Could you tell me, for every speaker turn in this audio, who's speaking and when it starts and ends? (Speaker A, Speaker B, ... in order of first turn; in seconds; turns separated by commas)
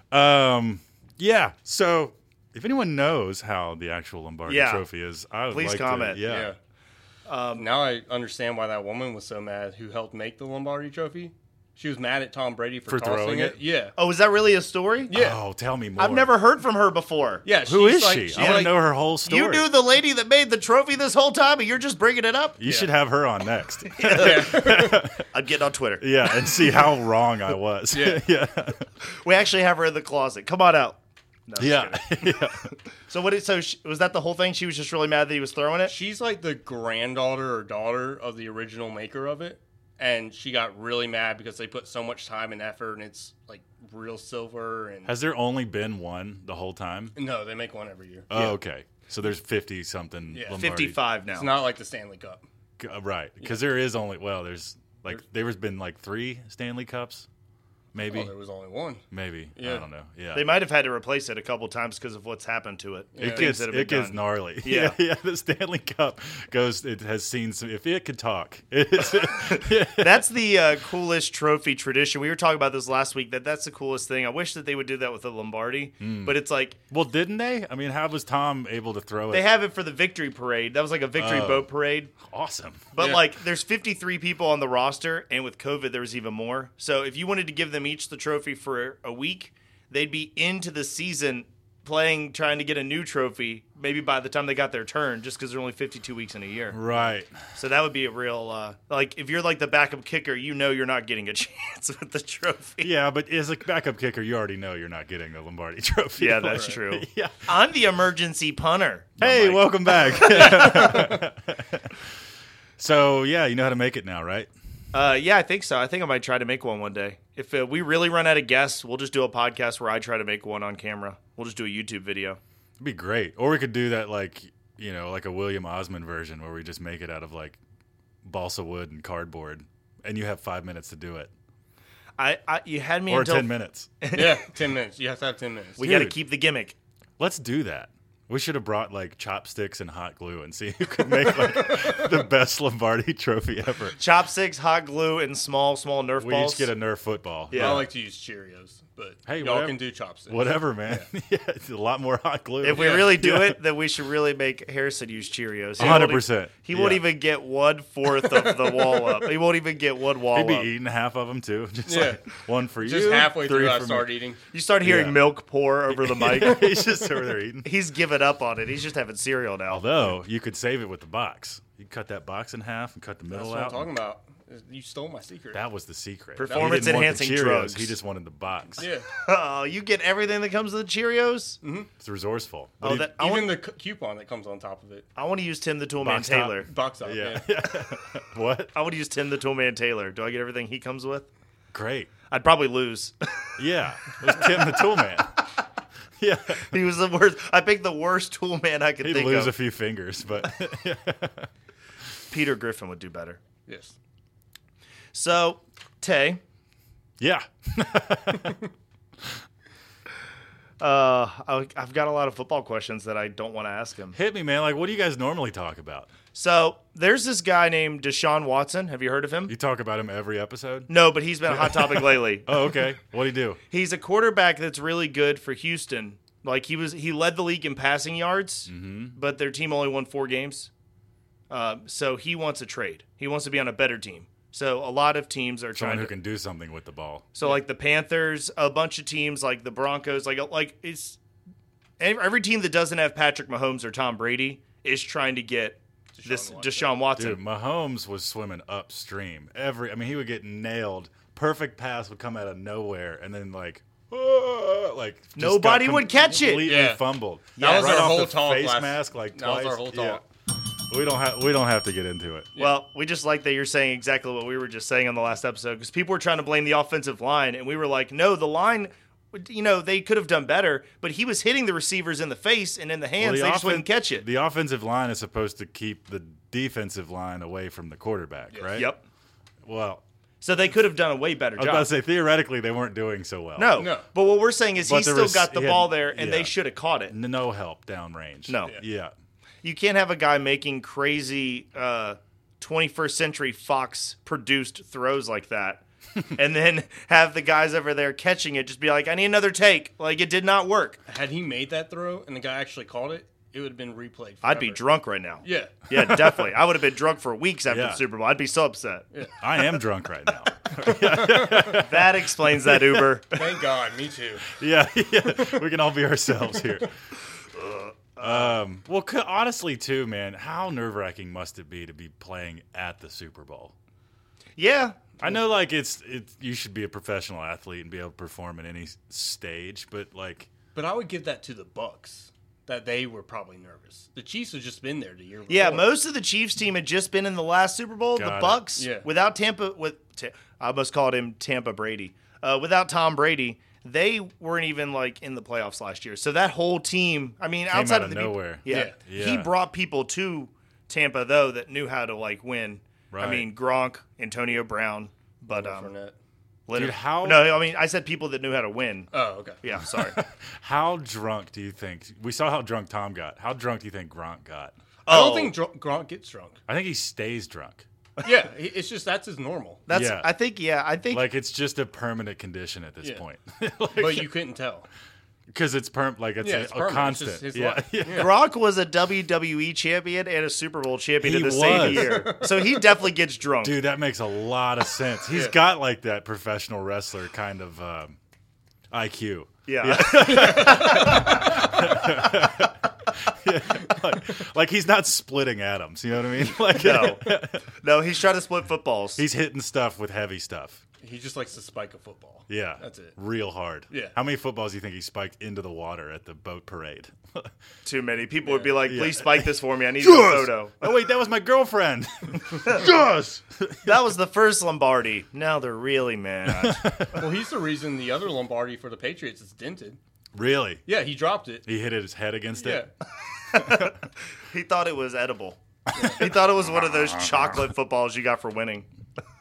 Speaker A: 0.1-6.5, Speaker B: 4.5-4.8, Speaker B: 5.5-6.2, Speaker C: 6.2-6.6, Speaker B: 7.3-7.7, Speaker C: 7.5-13.9, Speaker A: 12.9-13.6, Speaker B: 14.0-15.1, Speaker C: 15.1-15.4, Speaker A: 15.1-16.3, Speaker B: 16.0-17.4, Speaker C: 17.4-18.7, Speaker A: 17.6-19.7, Speaker B: 18.4-22.6, Speaker A: 22.6-25.2, Speaker C: 22.6-22.9, Speaker B: 23.9-24.6, Speaker C: 24.1-25.0, Speaker B: 25.3-26.8, Speaker A: 26.0-28.8, Speaker C: 27.9-28.2, Speaker B: 29.1-35.9, Speaker A: 31.6-32.7, Speaker C: 35.9-45.1, Speaker A: 45.0-47.1, Speaker C: 47.1-48.5, Speaker A: 48.3-51.0, Speaker C: 50.3-50.7, Speaker B: 50.5-51.5, Speaker C: 51.3-52.4, Speaker A: 52.8-57.3, Speaker A: 57.9-58.3, Speaker C: 58.0-59.0, Speaker A: 59.1-60.5, Speaker C: 59.5-59.9, Speaker B: 60.3-65.0, Speaker C: 63.1-63.5, Speaker A: 63.2-70.2, Speaker B: 69.4-76.8, Speaker A: 76.0-76.4, Speaker A: 76.9-79.5, Speaker B: 79.3-82.1, Speaker A: 81.2-82.9, Speaker B: 82.9-96.8, Speaker C: 83.0-83.2, Speaker A: 96.7-97.3, Speaker B: 97.5-102.9, Speaker A: 102.8-107.5, Speaker B: 106.2-111.1, Speaker C: 106.5-106.8, Speaker A: 109.2-112.0, Speaker C: 110.3-111.2, Speaker A: 112.8-114.5, Speaker B: 114.9-122.4, Speaker A: 122.8-127.6, Speaker A: 128.2-131.3, Speaker B: 132.2-134.4, Speaker A: 133.1-133.9, Speaker C: 134.1-135.8, Speaker A: 135.8-136.2, Speaker B: 135.8-136.8, Speaker A: 137.2-144.0, Speaker C: 141.6-142.2, Speaker B: 143.9-146.7, Speaker A: 146.2-147.9, Speaker B: 147.5-147.9, Speaker C: 147.5-151.1, Speaker A: 149.3-153.6, Speaker B: 152.6-160.7, Speaker C: 152.7-153.2, Speaker A: 155.8-157.0, Speaker C: 155.8-156.1, Speaker C: 158.3-159.1, Speaker A: 160.3-164.1, Speaker C: 161.9-162.2, Speaker C: 162.8-164.4, Speaker B: 164.5-166.8, Speaker A: 164.8-165.3, Speaker A: 165.9-167.7, Speaker B: 167.6-170.1, Speaker A: 169.7-173.9, Speaker C: 173.3-175.6, Speaker A: 175.5-178.9, Speaker B: 176.4-177.9, Speaker C: 176.4-176.8, Speaker C: 178.8-179.1, Speaker B: 179.2-181.6, Speaker C: 181.6-181.9, Speaker A: 182.0-183.1, Speaker B: 182.8-183.6, Speaker C: 183.2-185.1, Speaker B: 185.2-186.7, Speaker A: 186.0-188.7, Speaker C: 186.6-187.5, Speaker B: 188.7-191.3, Speaker A: 191.7-192.1, Speaker B: 192.3-193.5, Speaker A: 193.6-195.3, Speaker B: 194.2-194.9, Speaker A: 196.2-196.7, Speaker B: 196.5-199.5, Speaker A: 199.0-201.5, Speaker B: 202.3-203.4, Speaker C: 203.7-203.9, Speaker B: 205.1-206.4, Speaker A: 207.2-208.6, Speaker B: 210.8-214.2, Speaker A: 214.1-216.1, Speaker B: 216.3-219.5, Speaker A: 219.5-220.9, Speaker B: 220.9-222.5, Speaker A: 221.5-223.6, Speaker B: 223.7-230.7, Speaker A: 228.7-229.2, Speaker B: 231.5-236.1, Speaker A: 235.7-237.3, Speaker B: 237.3-241.2, Speaker B: 242.0-247.4, Speaker C: 246.1-246.9, Speaker A: 247.2-260.2, Speaker B: 255.3-256.7, Speaker C: 256.6-257.0, Speaker B: 257.6-258.2, Speaker C: 257.6-260.2, Speaker A: 260.9-262.5, Speaker C: 262.5-262.8, Speaker B: 262.6-274.2, Speaker A: 273.2-278.9, Speaker C: 278.5-278.8, Speaker B: 278.8-279.0, Speaker A: 279.6-280.0, Speaker B: 280.4-281.9, Speaker A: 281.6-283.8, Speaker B: 283.6-287.1, Speaker C: 283.8-284.0, Speaker A: 284.8-286.5, Speaker A: 287.1-289.1, Speaker B: 288.5-288.7, Speaker B: 289.6-301.0, Speaker C: 301.1-304.8, Speaker B: 304.4-309.1, Speaker C: 305.4-305.9, Speaker A: 307.7-308.0, Speaker A: 309.4-313.1, Speaker C: 310.8-311.8, Speaker B: 311.7-313.6, Speaker C: 313.3-314.5, Speaker A: 314.5-316.9, Speaker C: 315.3-315.6, Speaker B: 317.5-318.5, Speaker A: 318.2-323.7, Speaker B: 324.6-325.2, Speaker A: 325.2-330.5, Speaker C: 330.7-335.9, Speaker B: 335.5-355.9, Speaker A: 338.1-338.6, Speaker C: 338.8-339.1, Speaker A: 347.7-349.5, Speaker C: 348.7-348.9, Speaker A: 353.1-353.5, Speaker C: 355.5-356.1, Speaker B: 356.7-360.2, Speaker A: 356.7-357.6, Speaker C: 359.1-359.6, Speaker A: 359.9-364.7, Speaker B: 365.1-365.6, Speaker C: 365.1-366.6, Speaker A: 366.7-367.8, Speaker C: 368.2-369.8, Speaker B: 369.9-371.3, Speaker A: 369.9-370.3, Speaker A: 371.1-374.3, Speaker C: 373.9-374.9, Speaker A: 375.5-378.3, Speaker C: 376.4-378.3, Speaker B: 378.1-383.8, Speaker A: 381.2-382.2, Speaker C: 381.7-382.9, Speaker A: 383.6-388.2, Speaker C: 385.3-385.5, Speaker A: 388.9-397.6, Speaker B: 389.7-392.3, Speaker C: 390.3-391.5, Speaker B: 396.7-399.2, Speaker A: 399.2-400.8, Speaker C: 401.0-403.1, Speaker A: 402.5-407.5, Speaker C: 403.9-404.1, Speaker B: 407.8-410.9, Speaker C: 408.4-408.8, Speaker A: 408.8-413.9, Speaker B: 413.8-417.2, Speaker A: 416.4-417.3, Speaker C: 417.2-420.0, Speaker A: 420.3-420.8, Speaker C: 420.9-421.6, Speaker A: 421.6-422.9, Speaker C: 422.6-422.9, Speaker B: 423.5-428.9, Speaker A: 423.6-423.9, Speaker A: 426.0-427.7